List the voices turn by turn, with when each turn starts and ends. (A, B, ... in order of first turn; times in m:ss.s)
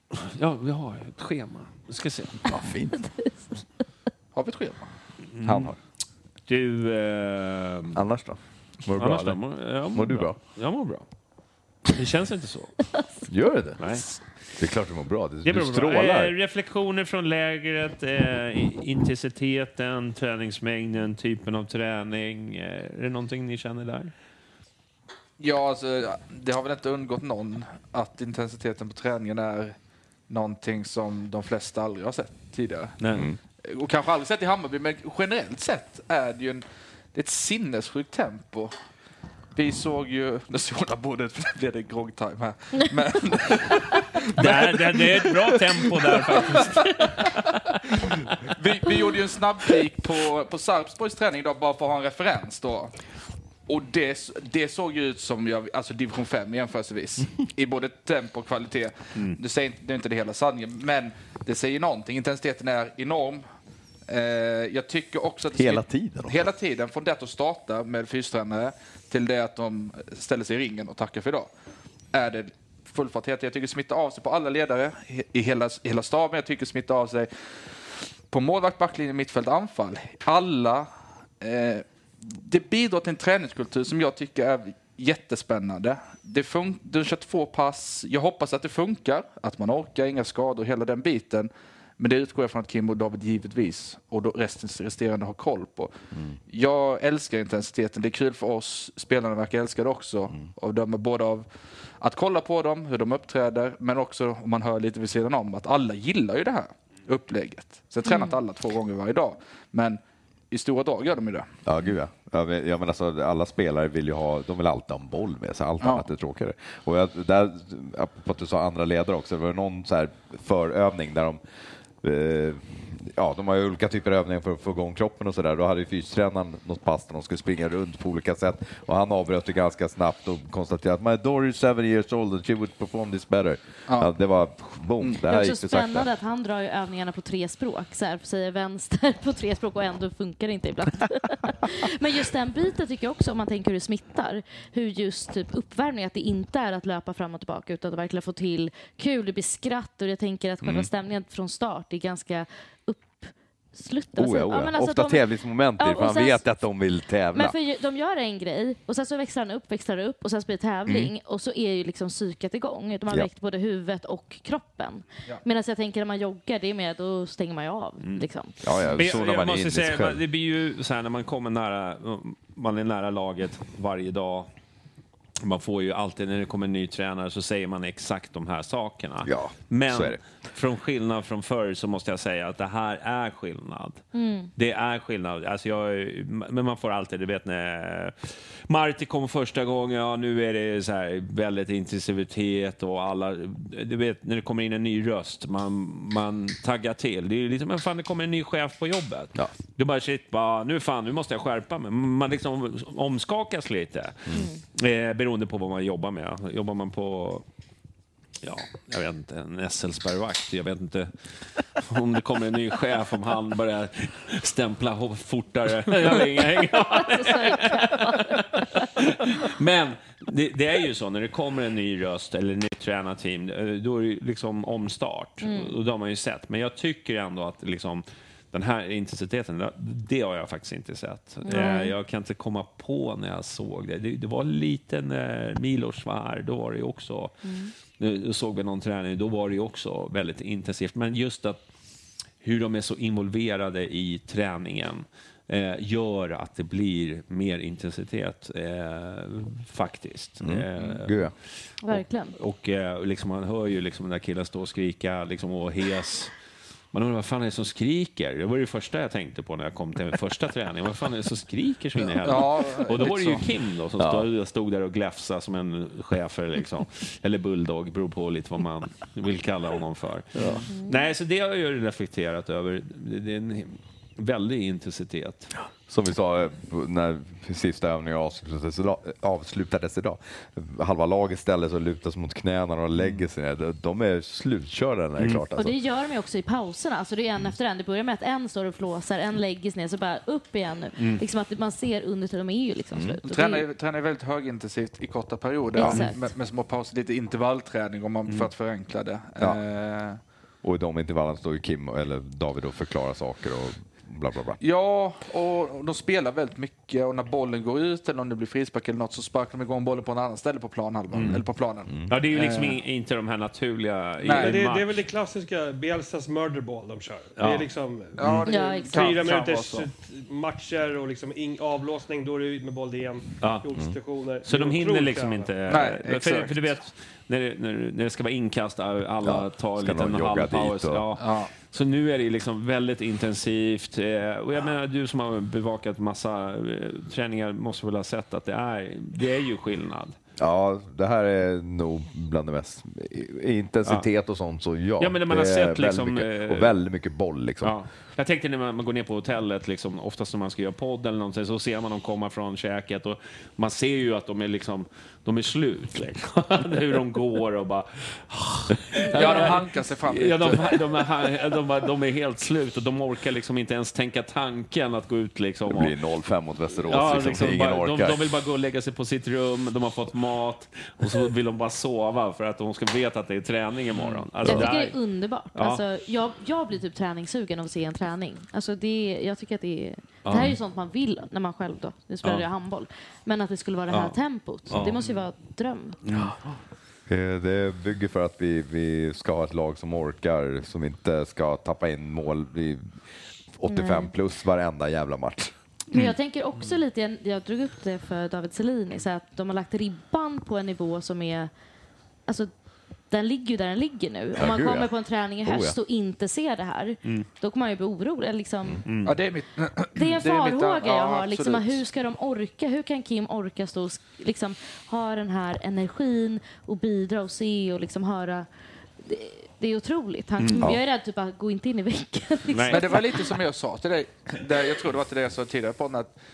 0:00.1-0:02.4 A
0:02.4-0:03.0 B
0:03.0-0:03.3 C
0:04.3-0:04.9 D
0:05.3-0:05.7 A
0:05.4-0:05.8 B
0:06.5-0:08.0 A
0:07.9-0:09.4 B
0:09.0-0:11.0 A
0:09.9-0:10.4 B
0:11.9-0:12.8 A
0:13.3-0:13.8 B
0:13.8-0:14.1 A
0:14.6-0:16.3 B
0:15.4-0:24.1 A
0:25.4-0:29.7 D
0:30.3-0:33.0 D
0:33.0-0:33.3 A
0:33.6-0:38.7 D
0:39.5-0:47.3 D
0:44.3-0:48.1 A
0:48.4-0:52.9 D
0:53.7-1:03.4 D
1:04.1-1:11.5 D
1:05.5-1:06.5 B
1:12.1-1:17.3 D
1:18.3-1:20.9 D
1:21.4-1:36.0 D
1:36.5-1:41.5 D
1:42.0-1:50.0 D
1:48.0-1:48.4 C
1:50.5-1:51.5 D
1:51.6-2:01.4 B
1:55.8-1:56.1 D
2:02.0-2:16.1 B
2:15.2-2:35.2 C
2:30.6-2:30.9 B
2:34.1-2:37.5 B
2:35.8-2:36.4 C
2:37.3-2:48.5 C
2:40.9-2:41.1 B
2:48.6-2:50.2 B
2:48.9-2:54.5 A
2:55.4-3:04.0 A
2:59.2-3:00.2 B
3:04.1-3:04.5 C
3:04.6-3:27.4 A
3:28.4-3:31.1 A
3:31.8-3:57.3 A
3:36.9-3:38.5 C
3:45.4-3:45.7 C
3:51.4-3:51.9 C
3:57.4-3:57.7 C
3:58.0-4:01.6 A
4:02.4-4:11.3 A
4:10.4-4:11.3 B
4:11.8-4:12.3 C
4:11.9-4:16.3 A
4:16.9-4:35.5 A
4:22.0-4:23.4 D
4:24.0-4:24.2 B
4:30.4-4:30.6 B
4:30.7-4:31.1 C
4:35.9-4:45.8 B
4:45.2-4:45.4 A
4:45.5-4:53.6 C
4:51.0-4:51.2 A
4:52.9-4:53.2 B
4:53.3-5:00.2 D
4:55.8-4:56.2 C
5:00.6-5:04.6 B
5:04.6-5:12.8 D
5:11.1-5:11.4 A
5:12.1-5:15.0 A
5:14.2-5:14.6 D
5:14.3-5:25.5 E
5:17.4-5:17.7 A
5:18.2-5:19.9 D
5:18.5-5:19.1 C
5:23.4-5:23.7 A
5:24.4-5:40.2 A
5:25.7-5:26.7 D
5:29.2-5:31.1 B
5:31.2-5:31.5 D
5:40.4-5:47.8 B
5:45.0-5:46.7 A
5:47.6-6:05.9 A
5:59.1-6:00.8 D
5:59.2-5:59.5 C
6:05.7-6:08.2 B
6:06.8-6:15.0 A
6:14.1-6:14.7 B
6:14.4-6:26.0 C
6:15.5-6:15.8 A
6:20.2-6:20.6 A
6:23.9-6:24.1 A
6:24.7-6:25.0 A
6:26.0-6:26.3 A
6:27.1-6:32.8 B
6:33.6-6:35.5 B
6:33.7-6:34.1 C
6:35.9-6:41.5 C
6:43.1-6:48.8 C
6:44.4-6:44.9 B
6:45.4-6:45.8 B
6:48.8-6:49.2 A
6:49.0-6:51.8 D
6:49.9-6:58.5 C
6:59.0-7:03.2 C
7:00.4-7:00.7 A
7:02.5-7:02.9 A
7:02.7-7:06.1 D